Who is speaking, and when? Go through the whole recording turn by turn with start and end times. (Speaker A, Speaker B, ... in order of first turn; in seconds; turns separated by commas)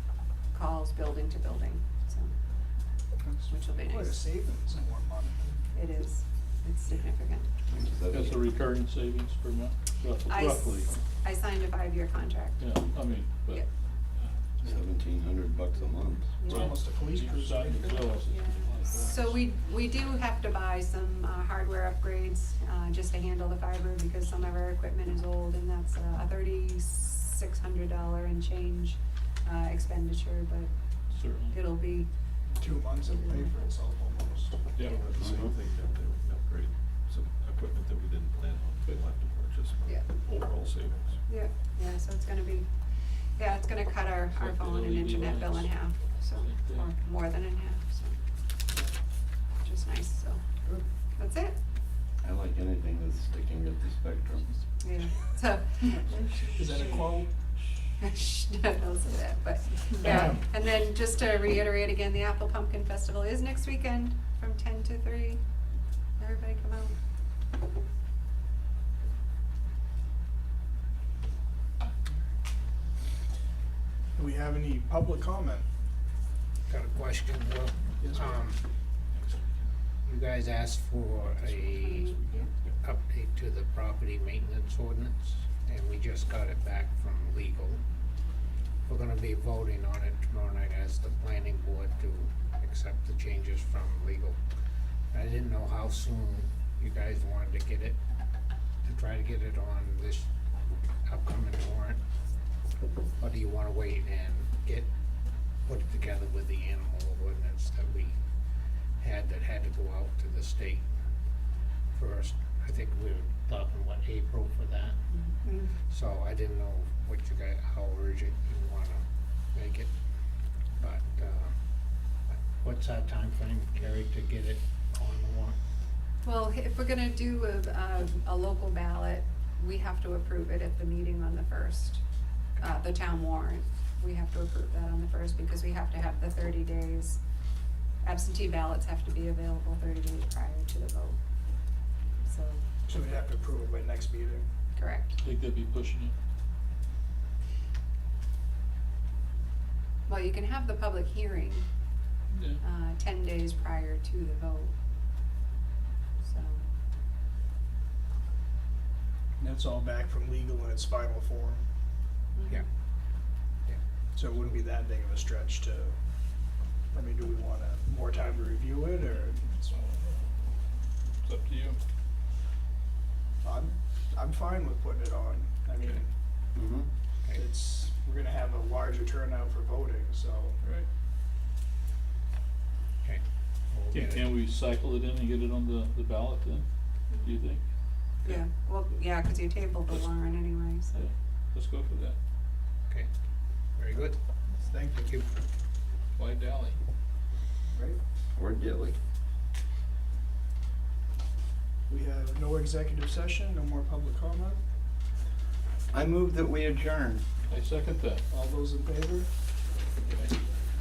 Speaker A: 0.5-2.3, Speaker B: 3.2-5.6, Speaker A: 3.5-4.2, Speaker A: 5.7-7.5, Speaker C: 7.7-8.4, Speaker D: 8.1-10.9, Speaker A: 10.3-12.7, Speaker D: 12.6-13.6, Speaker C: 14.7-16.3, Speaker A: 16.4-16.8, Speaker B: 16.4-18.1, Speaker D: 16.5-19.4, Speaker A: 18.3-30.7, Speaker D: 31.1-31.6, Speaker A: 31.5-32.1, Speaker B: 32.6-34.6, Speaker A: 33.0-33.6, Speaker D: 34.8-35.0, Speaker E: 34.8-41.2, Speaker A: 41.3-42.7, Speaker A: 43.4-48.2, Speaker D: 44.3-46.9, Speaker A: 49.6-50.4, Speaker A: 51.2-51.6, Speaker C: 52.2-54.5, Speaker A: 54.8-55.9, Speaker B: 56.5-57.3, Speaker A: 58.0-65.4, Speaker F: 60.0-60.4, Speaker A: 66.2-67.0, Speaker B: 74.1-75.7, Speaker F: 76.7-78.6, Speaker B: 78.0-78.4, Speaker E: 79.2-79.6, Speaker F: 80.0-82.2, Speaker A: 81.7-82.5, Speaker F: 82.8-87.8, Speaker F: 88.8-94.4, Speaker F: 95.1-98.0, Speaker F: 98.8-100.3, Speaker F: 101.0-102.0, Speaker F: 103.2-104.9, Speaker F: 105.7-108.2, Speaker F: 109.0-110.9, Speaker F: 111.9-115.0, Speaker A: 115.1-115.7, Speaker F: 115.8-119.9, Speaker F: 120.8-121.5, Speaker F: 122.3-125.6, Speaker A: 126.2-132.0, Speaker A: 132.6-137.2, Speaker A: 138.0-141.2, Speaker A: 142.2-142.6, Speaker B: 142.8-144.4, Speaker A: 144.7-145.2, Speaker D: 145.2-146.1, Speaker A: 150.1-151.7, Speaker D: 152.3-152.6, Speaker A: 152.6-154.7, Speaker A: 156.2-156.7, Speaker B: 159.4-161.6, Speaker A: 162.3-162.6, Speaker B: 164.1-165.9, Speaker B: 166.9-169.9, Speaker D: 169.7-170.2, Speaker D: 171.2-171.8, Speaker B: 173.4-176.1, Speaker C: 176.5-176.8, Speaker B: 177.3-180.6, Speaker D: 180.6-180.9, Speaker F: 183.0-184.3, Speaker D: 183.9-186.6, Speaker D: 187.2-187.6, Speaker A: 188.2-191.0, Speaker D: 190.9-192.2, Speaker F: 193.8-194.2, Speaker B: 194.5-195.1, Speaker F: 195.0-195.3, Speaker D: 196.2-196.8, Speaker B: 197.7-198.0, Speaker C: 198.3-198.9, Speaker B: 201.9-204.6, Speaker C: 205.9-207.2, Speaker D: 207.5-208.2, Speaker B: 208.3-209.3